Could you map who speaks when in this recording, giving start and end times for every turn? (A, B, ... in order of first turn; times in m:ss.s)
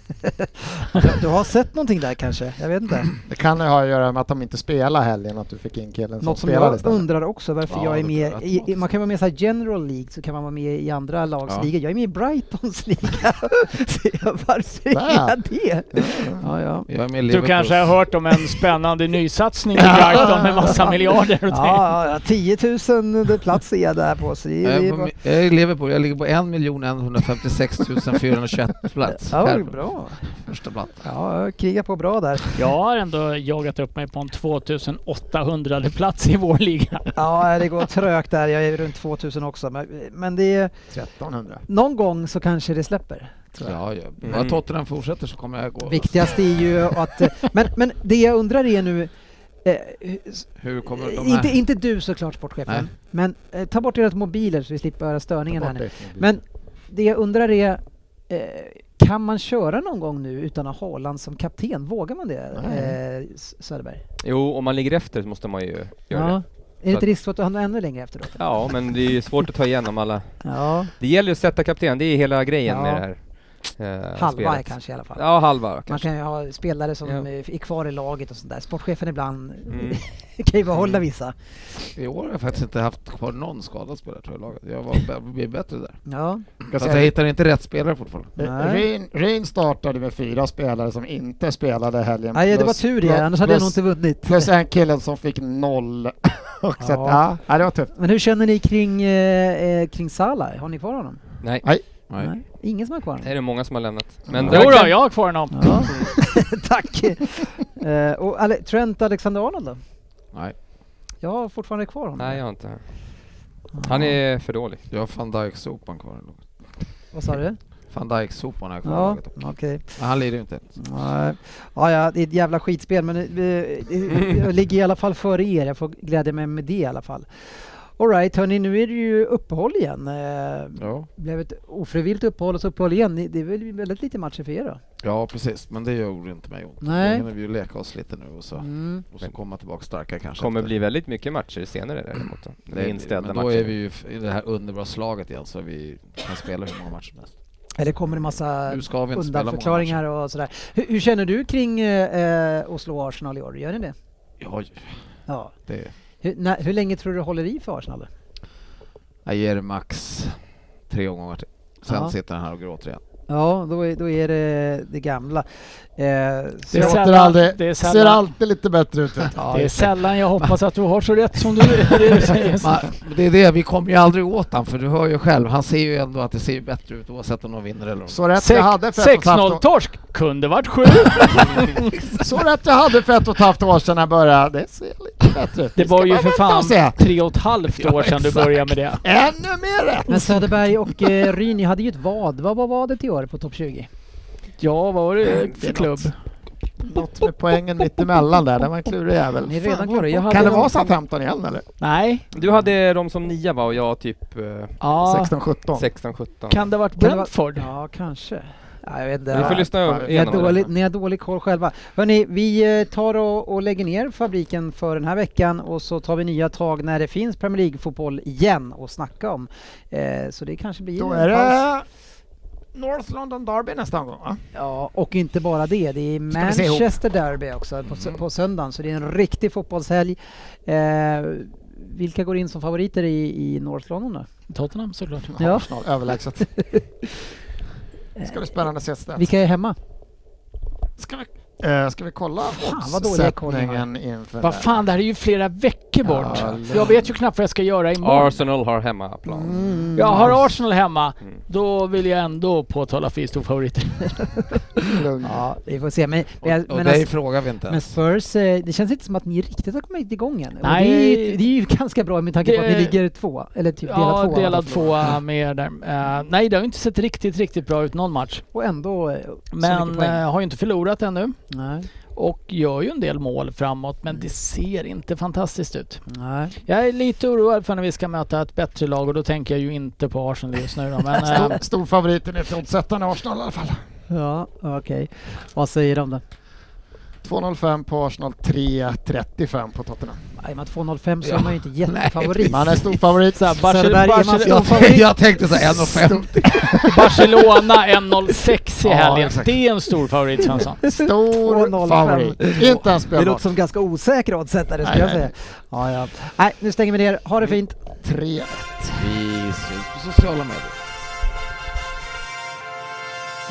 0:00.2-0:03.1 A
0:03.3-0:07.0 B
0:06.2-0:16.9 A
0:07.7-0:08.7 C
0:14.9-0:15.3 B
0:16.0-0:16.4 B
0:16.9-0:18.0 C
0:17.3-0:22.0 D
0:19.8-0:20.4 B
0:20.1-0:20.9 A
0:21.5-0:25.1 A
0:24.6-0:29.8 C
0:29.3-0:30.2 A
0:30.3-0:31.0 C
0:31.0-0:32.6 A
0:32.6-0:37.2 D
0:37.2-0:40.9 A
0:40.9-0:41.6 B
0:41.7-0:43.8 A
0:43.6-0:47.1 C
0:44.2-0:44.6 E
0:45.8-0:49.1 A
0:49.6-1:04.0 A
0:50.6-0:51.6 C
0:55.5-0:56.3 B
1:02.5-1:03.0 B
1:04.2-1:06.4 E
1:06.1-1:08.5 A
1:08.4-1:10.4 E
1:10.4-1:10.9 A
1:11.0-1:13.2 E
1:12.7-1:13.0 A
1:13.8-1:16.1 E
1:14.2-1:15.2 A
1:15.9-1:21.4 A
1:19.7-1:20.0 E
1:22.0-1:26.0 C
1:26.1-1:26.5 A
1:26.7-1:27.1 B
1:26.7-1:28.4 C
1:28.4-1:37.9 B
1:28.4-1:28.9 A
1:32.3-1:34.5 A
1:36.8-1:37.3 A
1:37.9-1:41.2 A
1:42.2-1:43.3 A
1:43.2-1:45.0 E
1:44.3-1:44.7 B
1:44.5-1:45.8 D
1:44.6-1:44.9 A
1:45.5-1:49.8 A
1:45.9-1:46.1 E
1:51.2-1:52.4 A
1:52.2-1:52.8 E
1:53.8-1:54.2 A
1:53.8-1:54.8 E
1:54.9-1:56.5 C
1:57.1-1:57.6 A
1:57.9-1:59.4 C
1:58.8-2:00.0 A
2:00.0-2:00.8 C
2:00.8-2:14.8 A
2:10.8-2:11.1 C
2:15.0-2:20.7 C
2:16.8-2:17.3 A
2:18.6-2:19.0 A
2:20.4-2:23.7 E
2:22.7-2:27.3 C
2:27.8-2:34.0 A
2:28.2-2:30.0 C
2:34.4-2:35.0 C
2:35.3-2:35.6 A
2:35.7-2:35.9 C
2:36.2-2:38.1 A
2:39.3-2:43.0 C
2:41.9-2:42.1 A
2:43.3-2:47.1 A
2:46.7-2:48.3 D
2:46.7-2:49.3 B
2:49.3-2:50.6 C
2:49.5-2:52.9 D
2:52.2-2:58.2 C
2:58.1-2:59.6 B
2:58.4-3:02.1 D
3:02.1-3:07.0 B
3:05.8-3:09.0 D
3:07.9-3:08.2 C
3:09.0-3:11.3 B
3:10.1-3:13.9 A
3:14.6-3:16.1 D
3:15.4-3:16.1 B
3:16.8-3:19.7 B
3:19.4-3:20.9 A
3:19.6-3:20.8 E
3:20.3-3:21.6 B
3:21.8-3:22.2 D
3:22.3-3:24.8 E
3:24.8-3:25.4 D
3:25.0-3:25.9 B
3:25.8-3:26.7 E
3:26.5-3:27.7 D
3:27.0-3:41.6 A
3:29.3-3:30.7 E
3:29.3-3:30.6 B
3:41.0-3:41.8 B
3:42.7-3:44.4 B
3:44.5-3:54.3 A
3:46.3-3:46.9 B
3:54.5-3:55.4 D
3:55.3-3:56.5 B
3:55.4-3:55.7 A
3:56.4-3:56.8 A
3:58.2-3:59.3 B
3:59.2-3:59.8 A
4:01.0-4:04.8 B
4:02.4-4:03.8 A
4:04.4-4:08.4 D
4:06.0-4:07.0 B
4:06.2-4:06.9 A
4:08.0-4:09.6 E
4:09.3-4:10.4 A
4:10.0-4:14.3 D
4:14.9-4:15.4 B
4:15.2-4:25.2 A
4:16.4-4:17.9 C
4:20.6-4:21.4 D
4:22.4-4:23.0 D
4:23.8-4:28.4 D
4:28.5-4:30.2 A
4:29.5-4:31.4 D
4:31.5-4:31.9 A
4:32.2-4:36.0 D
4:36.1-4:36.6 A
4:36.7-4:41.6 D
4:41.2-4:43.8 B
4:44.1-4:46.2 A
4:47.2-4:50.2 B
4:50.4-4:52.8 A
4:51.2-4:52.9 C
4:52.5-4:53.6 B
4:53.4-4:55.0 D
4:53.6-4:55.8 A
4:54.4-4:56.9 C
4:55.7-4:57.0 B
4:56.9-5:00.8 D
4:58.8-4:59.5 B
5:00.8-5:07.9 A
5:00.8-5:03.5 B
5:04.8-5:05.3 B
5:08.0-5:09.0 B
5:09.0-5:10.8 C